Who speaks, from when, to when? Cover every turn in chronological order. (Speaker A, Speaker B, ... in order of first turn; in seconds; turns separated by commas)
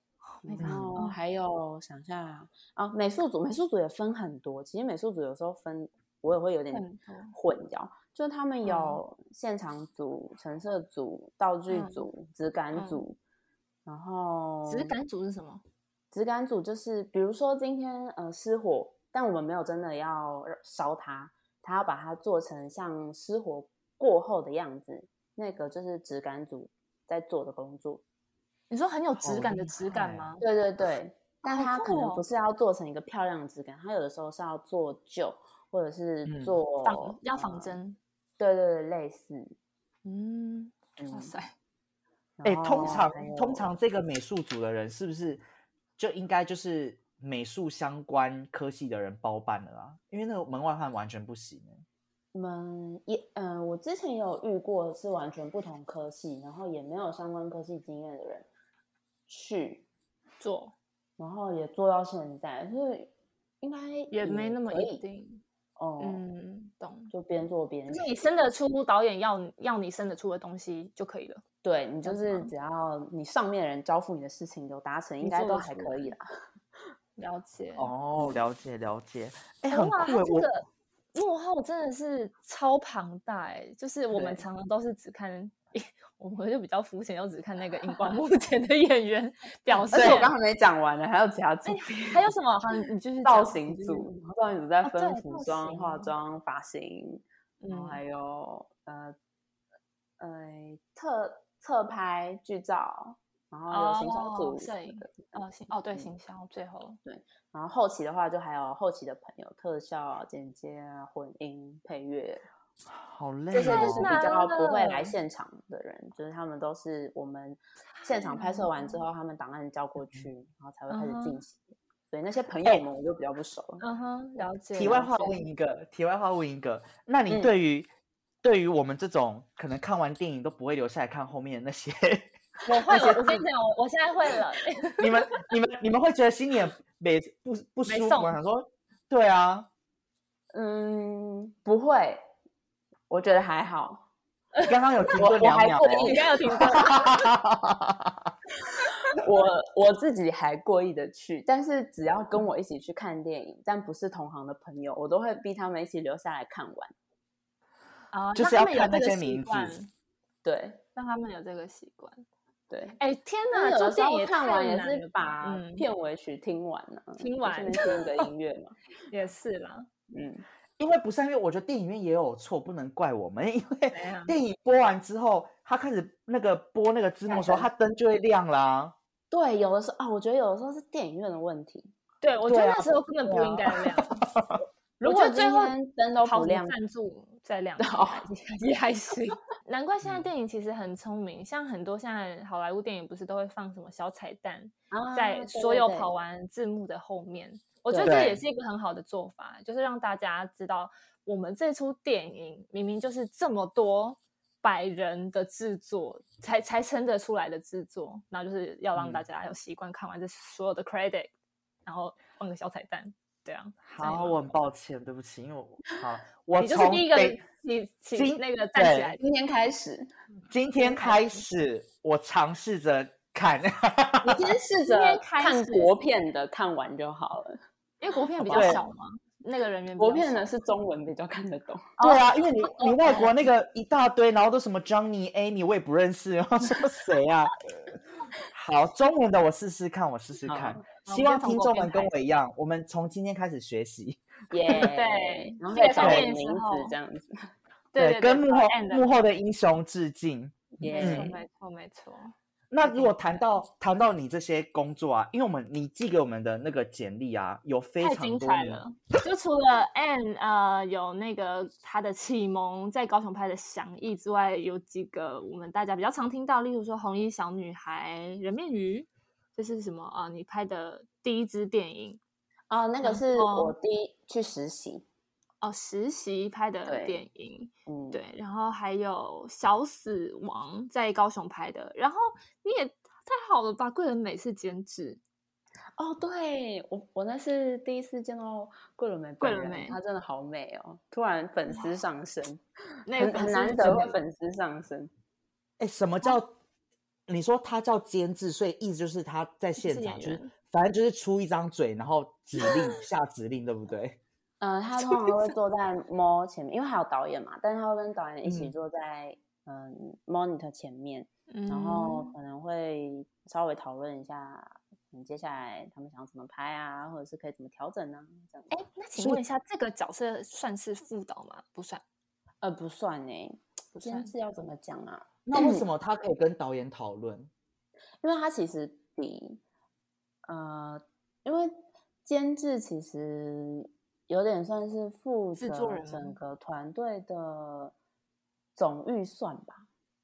Speaker A: 0.4-1.2, Speaker B: 0.4-13.2, Speaker C: 0.6-0.9, Speaker A: 6.7-7.3, Speaker A: 8.6-9.0, Speaker A: 11.7-12.0, Speaker A: 12.7-13.0, Speaker B: 13.8-14.9, Speaker A: 14.7-15.6, Speaker B: 16.1-28.0, Speaker A: 28.7-30.4, Speaker C: 29.2-30.3, Speaker B: 30.4-37.8, Speaker A: 31.4-32.2, Speaker C: 36.2-36.5, Speaker A: 36.8-38.0, Speaker B: 38.4-39.5, Speaker A: 40.0-41.5, Speaker B: 41.0-41.3, Speaker B: 42.4-43.7, Speaker C: 42.4-45.4, Speaker C: 46.0-51.8, Speaker B: 52.3-58.5, Speaker B: 59.3-59.9, Speaker A: 60.4-60.7, Speaker B: 61.2-65.0, Speaker A: 64.1-65.4, Speaker B: 65.8-66.2, Speaker A: 66.0-67.1, Speaker B: 67.1-68.2, Speaker A: 67.9-71.4, Speaker B: 71.6-76.2, Speaker A: 72.0-72.5, Speaker A: 75.2-76.1, Speaker A: 77.2-77.9, Speaker C: 77.8-80.5, Speaker A: 79.7-90.3, Speaker B: 84.1-84.4, Speaker B: 89.9-92.3, Speaker A: 91.6-94.1, Speaker B: 93.2-99.1, Speaker A: 94.8-96.1, Speaker A: 97.6-98.0, Speaker B: 100.2-105.3, Speaker A: 103.7-107.0, Speaker B: 107.0-112.4, Speaker C: 112.9-114.2, Speaker B: 113.5-123.8, Speaker A: 113.6-115.1, Speaker A: 118.0-119.0, Speaker A: 120.9-121.4, Speaker A: 123.8-125.4, Speaker C: 124.7-127.9, Speaker C: 128.4-133.5, Speaker A: 132.7-135.5, Speaker C: 135.0-139.7, Speaker A: 137.9-138.3, Speaker B: 140.5-142.3, Speaker B: 143.1-144.1, Speaker A: 144.5-147.2, Speaker C: 144.7-146.1, Speaker B: 145.2-147.1, Speaker C: 146.7-148.3, Speaker B: 148.8-156.9, Speaker A: 158.1-159.9, Speaker C: 158.3-159.7, Speaker B: 160.4-160.8, Speaker A: 160.9-162.2, Speaker B: 162.7-162.9, Speaker A: 163.0-165.8, Speaker B: 163.5-168.8, Speaker A: 167.2-168.3, Speaker A: 169.1-169.9, Speaker B: 170.1-170.4, Speaker C: 170.8-178.9, Speaker A: 173.9-174.3, Speaker B: 177.3-177.7, Speaker B: 179.3-181.9, Speaker A: 182.2-184.2, Speaker C: 182.5-184.6, Speaker B: 185.0-186.8, Speaker A: 185.0-211.3, Speaker B: 187.8-188.2, Speaker C: 190.0-190.3, Speaker B: 194.9-196.1, Speaker B: 197.9-198.2, Speaker C: 198.0-198.4, Speaker C: 208.9-209.2, Speaker A: 211.8-214.5, Speaker C: 213.8-217.4, Speaker A: 216.6-219.2, Speaker C: 218.1-219.2, Speaker B: 219.2-220.1, Speaker C: 220.5-224.5, Speaker A: 220.8-221.4, Speaker B: 224.2-227.6, Speaker A: 224.8-226.0, Speaker A: 228.0-230.5, Speaker B: 228.4-228.8, Speaker C: 228.4-228.8, Speaker B: 230.0-232.1, Speaker C: 232.0-237.9, Speaker A: 232.0-233.3, Speaker C: 238.5-244.2, Speaker B: 240.4-240.8, Speaker A: 241.0-242.1, Speaker B: 244.5-247.5, Speaker A: 244.7-246.9, Speaker C: 246.0-246.2, Speaker A: 247.9-249.1, Speaker C: 247.9-251.3, Speaker B: 250.8-251.4, Speaker A: 250.9-253.1, Speaker C: 252.7-258.8, Speaker A: 258.0-272.2, Speaker B: 272.7-275.0, Speaker A: 273.0-273.7, Speaker A: 275.6-285.2, Speaker B: 276.9-277.2, Speaker B: 277.9-278.2, Speaker B: 286.0-292.6, Speaker A: 289.4-290.0, Speaker A: 291.7-291.9, Speaker A: 293.1-294.1, Speaker B: 293.1-295.1, Speaker C: 295.8-296.5, Speaker C: 297.3-304.2, Speaker A: 299.8-300.5, Speaker A: 302.6-302.9, Speaker B: 304.6-318.7, Speaker A: 305.1-305.5, Speaker C: 308.4-308.7, Speaker A: 311.5-312.3, Speaker A: 318.7-322.0, Speaker C: 319.2-319.4, Speaker B: 322.6-325.9, Speaker A: 323.9-324.3, Speaker C: 325.4-327.5, Speaker B: 328.2-329.6, Speaker B: 330.4-337.9, Speaker A: 335.6-336.4, Speaker B: 338.8-339.9